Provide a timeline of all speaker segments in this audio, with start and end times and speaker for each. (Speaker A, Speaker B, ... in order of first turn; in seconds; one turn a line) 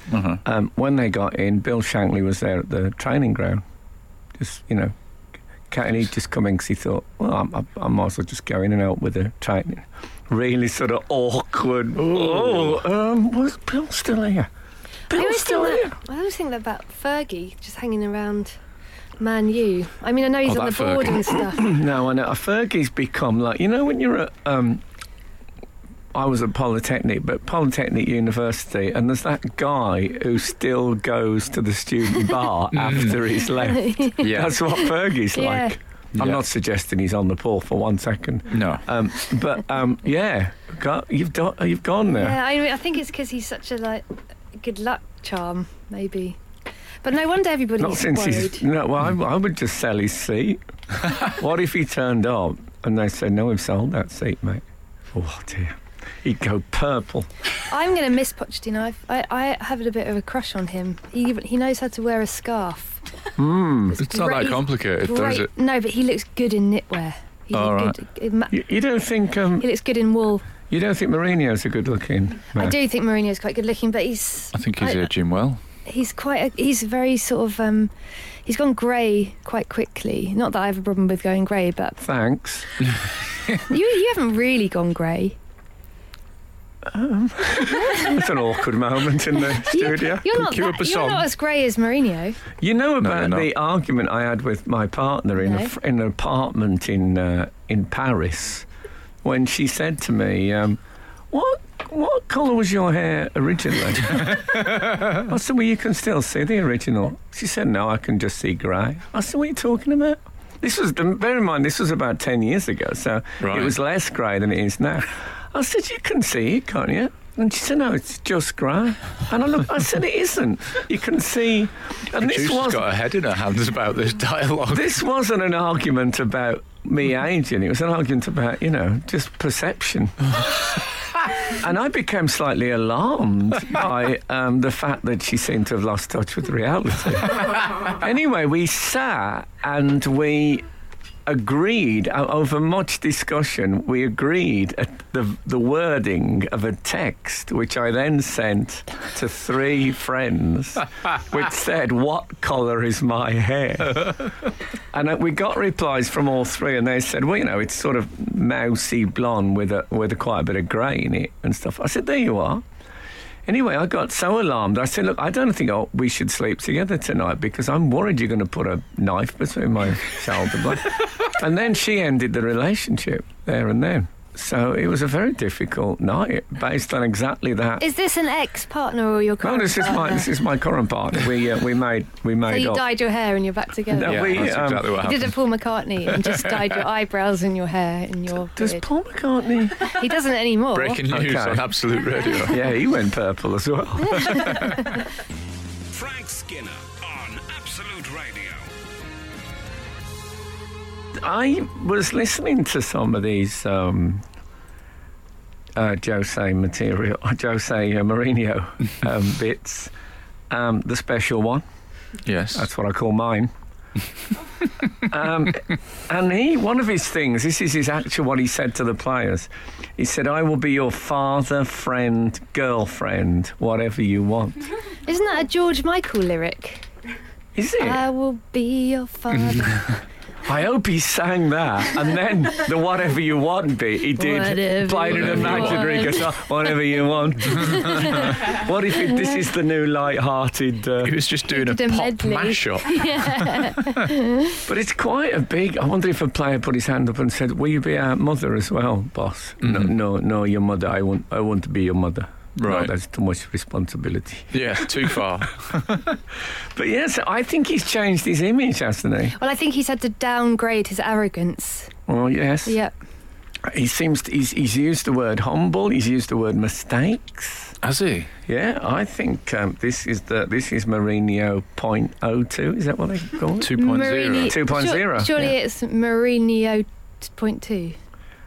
Speaker A: 0.1-0.4
Speaker B: 0.4-3.6
Speaker B: 4.4-4.9
Speaker B: 5.7-14.5
Speaker A: 12.0-12.8
Speaker B: 15.1-16.0
Speaker C: 15.1-18.6
Speaker C: 19.2-21.8
Speaker A: 20.4-21.3
Speaker B: 21.5-24.8
Speaker B: 26.1-42.4
Speaker A: 32.7-33.2
Speaker C: 33.6-34.2
Speaker A: 34.2-34.6
Speaker C: 35.3-35.7
Speaker A: 36.1-36.4
Speaker A: 38.5-38.8
Speaker C: 42.1-46.4
Speaker C: 47.0-48.6
Speaker B: 47.8-57.3
Speaker C: 57.7-63.0
Speaker B: 63.4-64.0
Speaker C: 63.9-68.6
Speaker A: 64.0-65.5
Speaker A: 67.5-68.0
Speaker B: 68.5-69.7
Speaker C: 69.6-70.5
Speaker B: 70.7-72.8
Speaker C: 72.5-75.1
Speaker A: 74.5-75.6
Speaker C: 75.8-77.9
Speaker C: 78.4-82.0
Speaker B: 82.0-82.7
Speaker C: 83.7-85.4
Speaker B: 86.8-90.5
Speaker C: 87.7-88.2
Speaker C: 89.5-92.4
Speaker A: 90.3-91.3
Speaker B: 92.6-98.7
Speaker A: 93.0-93.5
Speaker C: 95.4-95.7
Speaker B: 99.2-100.8
Speaker B: 101.3-122.9
Speaker A: 113.4-113.7
Speaker A: 122.2-124.9
Speaker B: 124.7-130.5
Speaker B: 131.4-140.7
Speaker B: 141.2-154.3
Speaker B: 154.9-162.6
Speaker B: 163.4-177.8
Speaker C: 177.8-180.3
Speaker B: 179.4-182.8
Speaker C: 182.5-188.8
Speaker B: 183.9-184.9
Speaker A: 184.0-185.3
Speaker A: 186.2-186.6
Speaker B: 188.6-190.0
Speaker C: 189.8-191.0
Speaker A: 190.7-192.6
Speaker B: 191.1-191.7
Speaker B: 192.4-194.7
Speaker A: 194.2-194.8
Speaker D: 195.9-198.7
Speaker B: 201.1-204.2
Speaker B: 205.7-209.9
Speaker B: 210.5-211.6
Speaker A: 212.2-212.7
Speaker B: 212.5-213.5
Speaker B: 215.0-224.7
Speaker C: 225.1-226.9
Speaker B: 227.5-228.0
Speaker C: 227.8-229.9
Speaker B: 230.4-241.2
Speaker C: 234.2-236.3
Speaker A: 235.1-236.2
Speaker C: 237.5-238.4
Speaker A: 241.0-244.1
Speaker C: 241.5-244.6
Speaker B: 244.7-255.2
Speaker A: 249.6-249.9
Speaker A: 252.6-252.9
Speaker A: 254.5-256.2
Speaker B: 256.7-259.4
Speaker C: 259.4-261.9
Speaker B: 262.1-262.8
Speaker C: 262.6-262.9
Speaker B: 263.6-267.7
Speaker A: 267.8-268.3
Speaker B: 268.5-273.8
Speaker A: 273.6-274.6
Speaker C: 273.8-278.0
Speaker B: 274.4-275.6